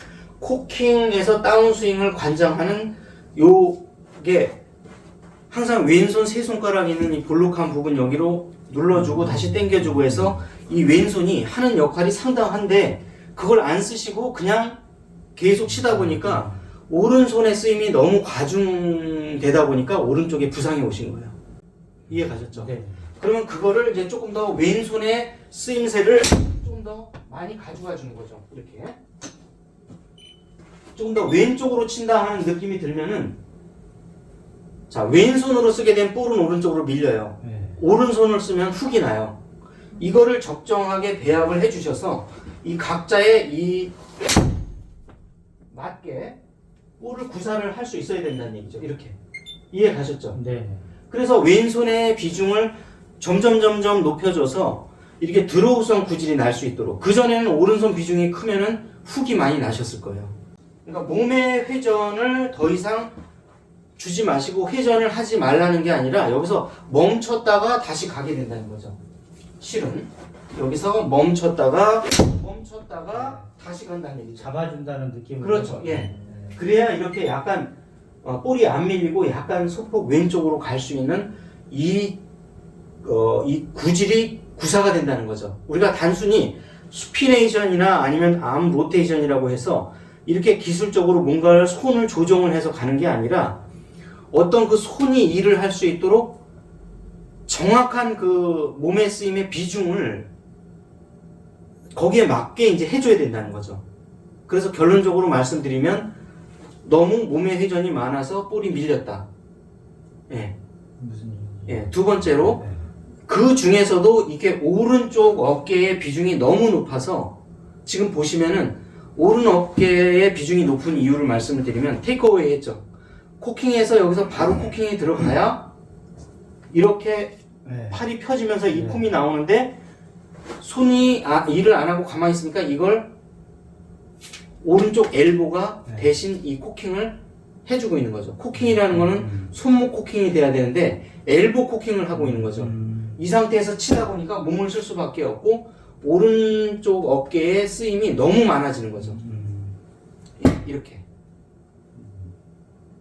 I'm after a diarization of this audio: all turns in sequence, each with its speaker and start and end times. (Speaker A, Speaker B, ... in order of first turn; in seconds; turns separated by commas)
Speaker A: 0.4-4.6, Speaker A: 5.5-14.8, Speaker B: 8.9-10.4, Speaker A: 15.3-21.3, Speaker B: 15.7-16.6, Speaker B: 22.1-23.0, Speaker A: 22.1-29.0, Speaker A: 30.9-33.4, Speaker A: 34.9-39.4, Speaker B: 37.4-37.8, Speaker A: 40.0-43.9, Speaker A: 45.7-46.4, Speaker A: 47.0-49.2, Speaker A: 49.7-50.4, Speaker B: 50.3-50.8, Speaker A: 51.1-60.3, Speaker A: 60.8-63.1, Speaker A: 64.0-69.0, Speaker A: 69.6-74.5, Speaker B: 73.2-73.4, Speaker B: 74.4-76.6, Speaker A: 75.4-77.7, Speaker A: 78.2-82.2, Speaker A: 83.0-93.6, Speaker A: 94.3-96.4, Speaker A: 97.5-100.3, Speaker A: 101.9-103.8, Speaker A: 104.5-106.1, Speaker A: 106.8-109.3, Speaker A: 110.3-110.5, Speaker B: 111.0-112.8, Speaker A: 111.7-112.6, Speaker A: 113.3-122.8, Speaker A: 123.4-125.7, Speaker A: 126.7-127.3, Speaker B: 127.6-128.0, Speaker A: 127.9-129.8, Speaker B: 128.7-129.0, Speaker A: 130.6-133.1, Speaker A: 134.6-149.2, Speaker B: 138.6-139.5, Speaker B: 142.1-143.2, Speaker B: 149.0-149.8, Speaker A: 150.4-151.0, Speaker B: 151.9-152.3